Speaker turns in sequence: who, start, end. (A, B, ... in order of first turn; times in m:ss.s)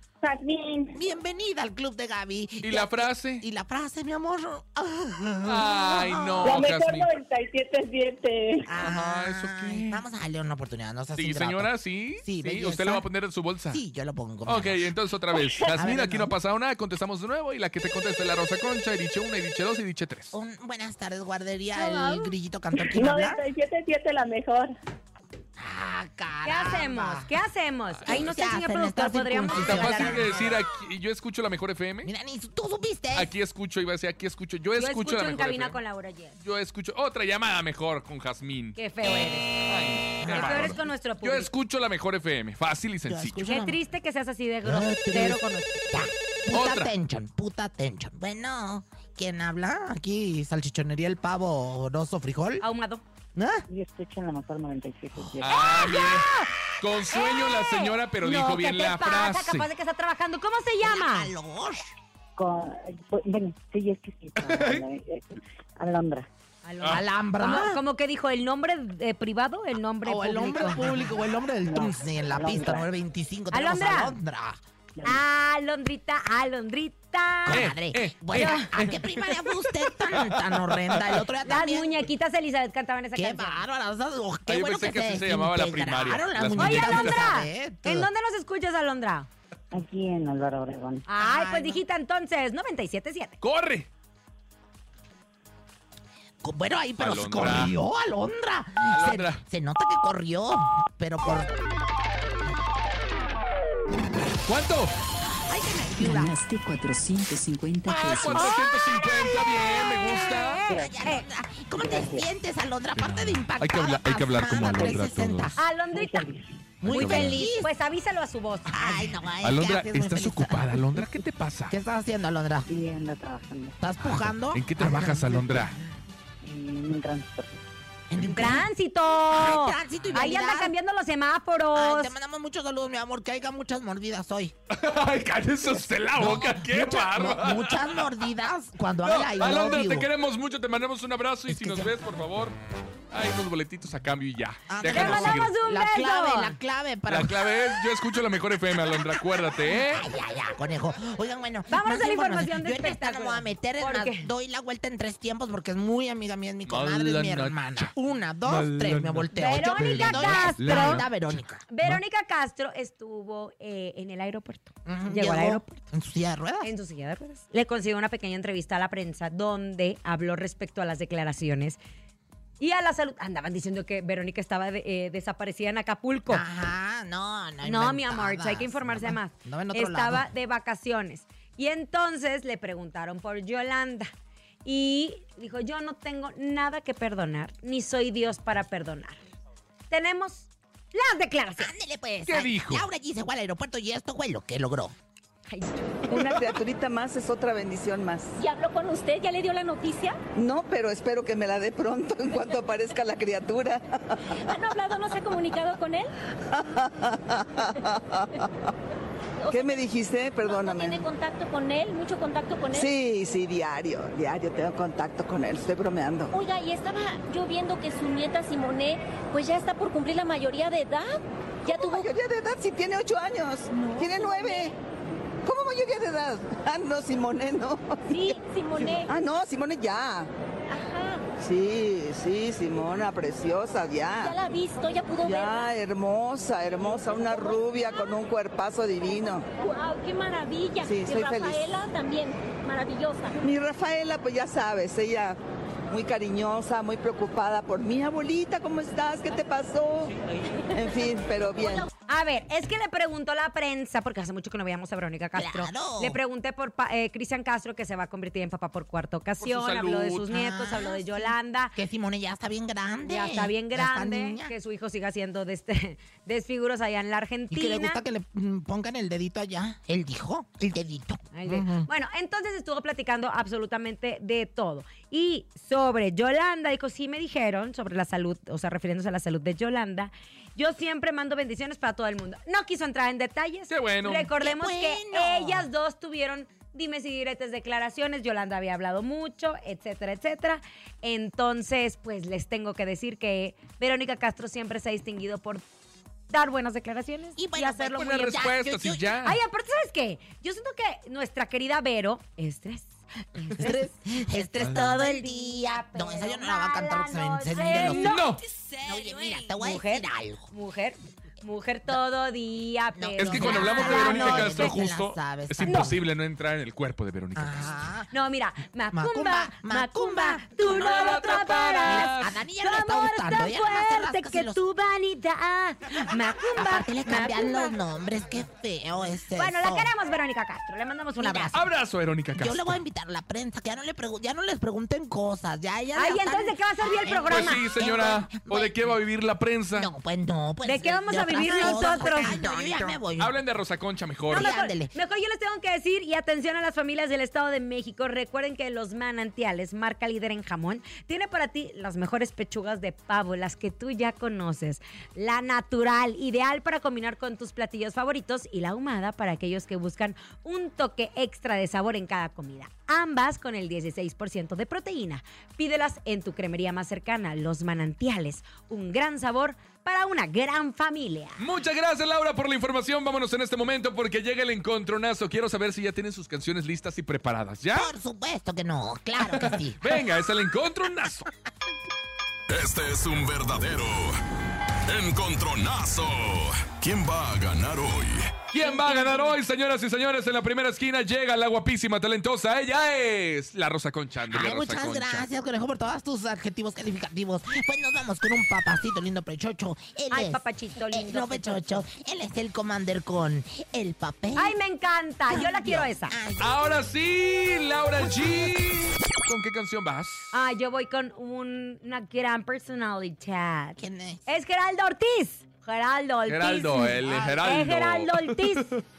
0:00.2-0:01.0 A
0:00.9-0:06.7 B
0:02.6-0:03.4 C
0:05.4-0:07.1 C
0:06.4-0:08.7 A
0:08.6-0:13.0 B
0:08.8-0:10.0 C
0:11.2-0:13.8 C
0:13.7-0:14.9 B
0:14.4-0:20.3 C
0:15.7-0:16.4 B
0:20.3-0:23.4 B
0:21.8-0:22.3 D
0:22.8-0:24.7 A
0:25.6-0:27.3 B
0:26.4-0:30.5 D
0:28.0-0:30.6 B
0:29.5-0:32.1 C
0:32.0-0:33.3 B
0:33.2-0:35.8 C
0:34.8-0:36.4 D
0:36.4-0:38.8 C
0:38.8-0:39.5 D
0:39.7-0:43.5 C
0:40.2-0:40.8 B
0:40.3-0:41.5 D
0:43.1-0:43.8 B
0:43.4-0:45.7 D
0:44.6-0:52.6 B
0:46.5-0:46.9 C
0:52.6-0:53.0 D
0:53.4-0:53.6 B
0:53.7-0:55.7 E
0:55.4-0:59.7 C
0:55.6-0:56.5 D
0:57.1-1:01.3 D
1:00.8-1:01.9 B
1:02.4-1:06.3 E
1:04.4-1:04.8 C
1:06.6-1:10.8 D
1:06.8-1:07.8 B
1:10.0-1:14.6 B
1:11.6-1:12.9 E
1:13.5-1:14.2 D
1:15.0-1:17.6 D
1:17.4-1:22.1 B
1:17.5-1:21.2 C
1:18.4-1:18.7 D
1:21.4-1:23.6 D
1:23.1-1:28.1 B
1:24.5-1:27.2 C
1:26.6-1:29.3 D
1:29.7-1:31.1 E
1:31.1-1:33.4 D
1:31.2-1:31.8 B
1:33.4-1:33.9 C
1:36.4-1:41.5 B
1:37.0-1:37.8 C
1:38.9-1:39.4 C
1:44.4-1:44.9 C
1:45.2-1:46.3 B
1:46.0-1:48.4 F
1:47.9-1:50.6 C
1:50.0-1:51.3 D
1:50.7-1:51.0 E
1:50.7-1:55.6 B
1:51.8-1:52.3 E
1:53.0-1:55.6 C
1:54.6-1:55.0 E
1:55.6-1:56.3 D
1:55.9-1:56.8 E
1:56.8-1:57.7 B
1:56.9-1:59.1 D
1:56.9-1:57.4 C
1:58.7-2:00.8 B
1:59.4-2:01.7 C
2:01.7-2:02.7 B
2:02.7-2:03.8 E
2:03.8-2:05.8 B
2:04.0-2:05.8 C
2:06.4-2:07.6 E
2:08.1-2:08.7 B
2:08.3-2:12.1 D
2:09.3-2:10.7 B
2:11.8-2:14.6 B
2:14.7-2:18.1 C
2:16.2-2:20.1 B
2:19.0-2:22.6 C
2:21.5-2:22.0 B
2:23.1-2:25.5 C
2:24.7-2:27.6 B
2:24.8-2:26.6 D
2:27.1-2:30.0 C
2:29.7-2:41.6 B
2:31.7-2:34.3 D
2:36.6-2:37.9 C
2:38.5-2:42.0 C
2:39.3-2:41.0 D
2:41.7-2:45.8 D
2:44.9-2:46.7 B
2:46.6-2:51.8 D
2:52.6-2:56.4 D
2:56.3-3:00.3 B
2:57.6-3:04.1 D
3:04.6-3:09.2 D
3:09.9-3:11.7 D
3:11.6-3:14.9 B
3:12.3-3:12.9 C
3:15.5-3:16.1 D
3:16.1-3:18.3 G
3:18.4-3:20.2 H
3:20.4-3:24.2 G
3:24.4-3:26.1 H
3:26.5-3:28.7 G
3:29.4-3:29.8 H
3:29.5-3:31.1 G
3:30.5-3:32.9 H
3:32.7-3:36.3 G
3:36.3-3:42.1 H
3:41.6-3:44.7 G
3:43.7-3:44.7 H
3:45.4-3:48.2 G
3:48.1-3:49.1 H
3:48.9-3:50.3 G
3:50.7-3:51.2 H
3:51.4-3:54.4 G
3:54.2-3:55.7 H
3:55.2-3:59.5 G
3:59.6-4:03.4 H
4:00.8-4:01.7 G
4:03.4-4:05.4 G
4:05.9-4:10.1 G
4:10.7-4:11.9 G
4:11.6-4:11.9 H
4:12.1-4:21.8 D
4:15.4-4:16.2 B
4:19.4-4:20.3 C
4:20.3-4:24.5 B
4:23.0-4:28.0 D
4:27.5-4:31.9 B
4:31.3-4:55.6 D
4:43.7-4:44.3 C
4:44.4-4:45.7 B
4:56.3-4:58.4 D
4:57.4-4:59.2 B
4:57.9-4:59.4 C
4:59.2-5:08.2 D
5:03.6-5:10.5 B
5:07.9-5:08.4 C
5:09.5-5:14.8 D
5:13.0-5:16.0 B
5:13.2-5:17.8 C
5:15.7-5:16.0 D
5:17.4-5:18.1 B
5:18.1-5:27.8 D
5:18.9-5:20.7 B
5:20.6-5:22.4 C
5:21.8-5:24.6 B
5:26.6-5:29.9 B
5:29.4-5:31.6 D
5:31.2-5:31.6 B
5:31.5-5:32.8 C
5:32.3-5:39.0 B
5:36.0-5:37.6 D
5:37.3-5:39.9 C
5:39.7-5:43.4 B
5:40.6-5:43.0 D
5:43.2-5:44.5 C
5:44.3-5:44.9 B
5:44.3-6:11.4 D
6:11.4-6:17.9 C
6:17.7-6:20.0 B
6:19.2-6:21.3 C
6:22.5-6:24.2 I
6:24.9-6:28.4 I
6:28.5-6:35.3 C
6:28.6-6:29.4 D
6:34.3-6:44.6 B
6:40.1-6:41.8 D
6:44.4-6:46.2 D
6:45.3-6:46.6 B
6:46.4-6:50.3 C
6:50.3-6:58.7 D
6:53.8-6:54.2 B
6:56.3-6:58.8 C
6:57.0-6:57.7 B